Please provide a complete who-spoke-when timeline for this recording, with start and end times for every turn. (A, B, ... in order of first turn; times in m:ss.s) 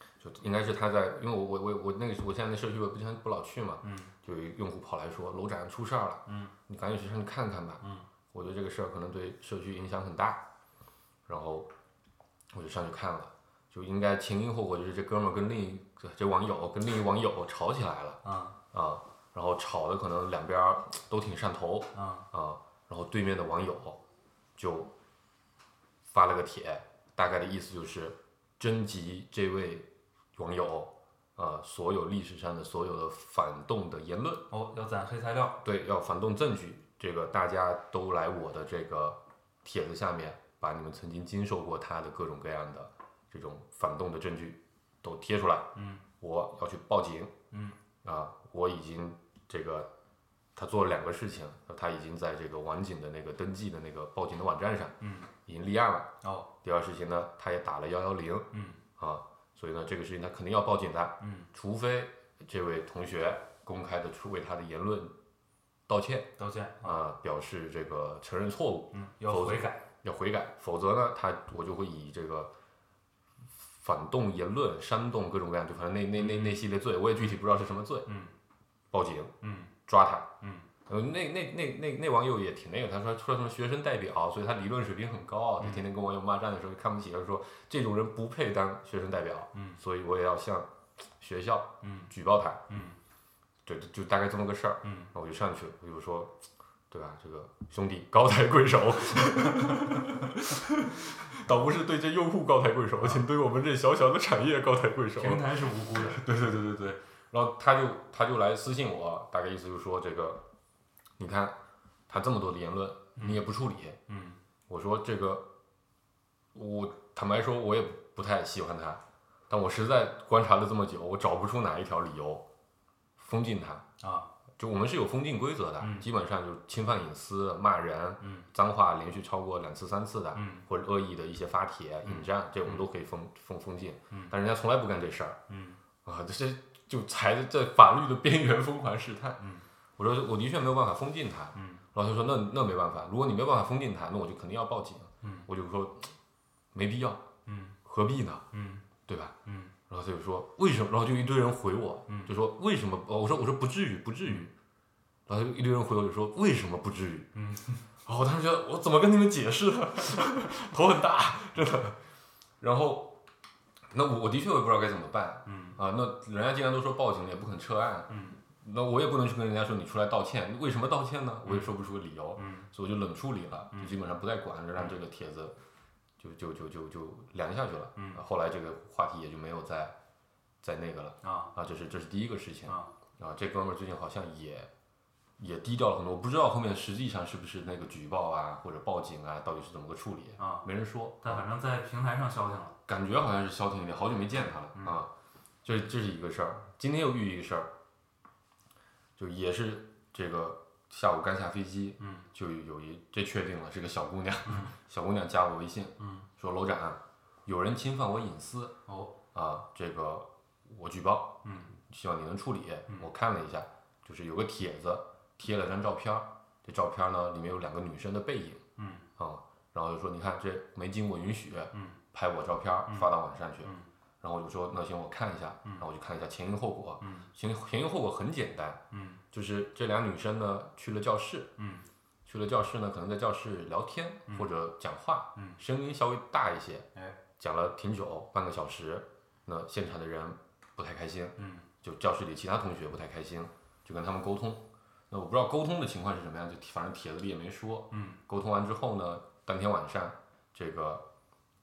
0:00.2-0:10.4 A
0:03.8-0:04.1 B
0:06.3-0:06.5 B
0:11.3-0:11.7 A
0:12.5-0:18.2 A
0:18.2-0:18.6 B
0:18.7-0:24.0 A
0:22.0-0:22.3 B
0:24.6-0:24.9 A
0:26.1-0:34.5 A
0:34.5-0:35.6 B
0:35.6-0:47.3 A
0:45.8-0:46.0 B
0:47.5-0:47.8 B
0:48.0-0:49.9 A
0:50.6-0:54.9 A
0:55.0-0:55.3 B
0:55.5-0:56.1 A
0:56.2-0:56.5 B
0:56.6-0:58.5 A
0:58.5-0:58.8 B
0:59.0-1:05.1 A
1:01.2-1:01.5 B
1:05.9-1:06.3 A
1:06.4-1:07.0 B
1:06.8-1:12.5 A
1:08.9-1:09.8 B
1:13.7-1:18.1 A
1:16.2-1:16.7 B
1:18.1-1:18.3 B
1:18.9-1:19.3 A
1:19.4-1:19.7 B
1:19.9-1:20.3 A
1:20.4-1:20.7 B
1:20.9-1:30.7 A
1:25.6-1:25.8 B
1:29.5-1:29.8 B
1:31.2-1:32.6 A
1:31.8-1:32.1 B
1:32.7-1:33.0 B
1:33.6-1:36.3 A
1:34.8-1:35.1 B
1:36.9-1:50.4 A
1:43.0-1:43.2 B
1:45.2-1:46.3 B
1:51.2-1:51.6 A
1:52.1-1:54.0 A
1:53.2-1:53.4 B
1:54.1-1:54.4 B
1:54.7-1:55.5 A
1:56.5-2:02.5 A
2:03.2-2:03.8 A
2:04.0-2:04.3 B
2:04.6-2:15.4 A
2:05.8-2:06.1 B
2:08.2-2:08.5 B
2:10.4-2:10.6 B
2:12.0-2:12.8 B
2:15.5-2:15.8 B
2:16.0-2:19.4 A
2:19.4-2:19.6 B
2:20.0-2:26.1 A
2:21.6-2:21.8 B
2:25.2-2:25.5 B
2:26.7-2:27.2 A
2:27.5-2:27.8 B
2:27.8-2:28.4 A
2:28.5-2:28.8 B
2:29.1-2:29.4 A
2:29.4-2:29.7 B
2:29.9-2:34.5 A
2:32.1-2:32.3 B
2:34.2-2:34.5 B
2:35.3-2:37.3 A
2:37.4-2:37.8 B
2:38.0-2:42.0 A
2:42.6-2:43.2 A
2:43.9-2:55.6 A
2:45.5-2:45.8 B
2:48.1-2:48.4 B
2:51.5-2:51.7 B
2:52.4-2:52.7 B
2:56.2-3:00.0 A
2:58.0-2:58.2 B
3:00.6-3:04.7 A
3:01.2-3:01.5 B
3:05.4-3:11.5 A
3:10.4-3:10.7 B
3:11.2-3:12.8 B
3:12.9-3:15.1 A
3:15.6-3:17.7 A
3:19.2-3:28.7 A
3:22.0-3:22.3 B
3:26.0-3:26.3 B
3:28.9-3:29.2 B
3:29.3-3:38.6 A
3:31.4-3:31.7 B
3:38.8-3:39.1 B
3:39.2-3:48.8 A
3:41.7-3:42.0 B
3:47.0-3:47.3 B
3:48.9-3:49.2 B
3:49.3-3:51.5 A
3:51.6-3:51.8 B
3:52.3-3:56.9 A
3:57.4-4:11.0 A
4:01.4-4:01.7 B
4:07.9-4:08.2 B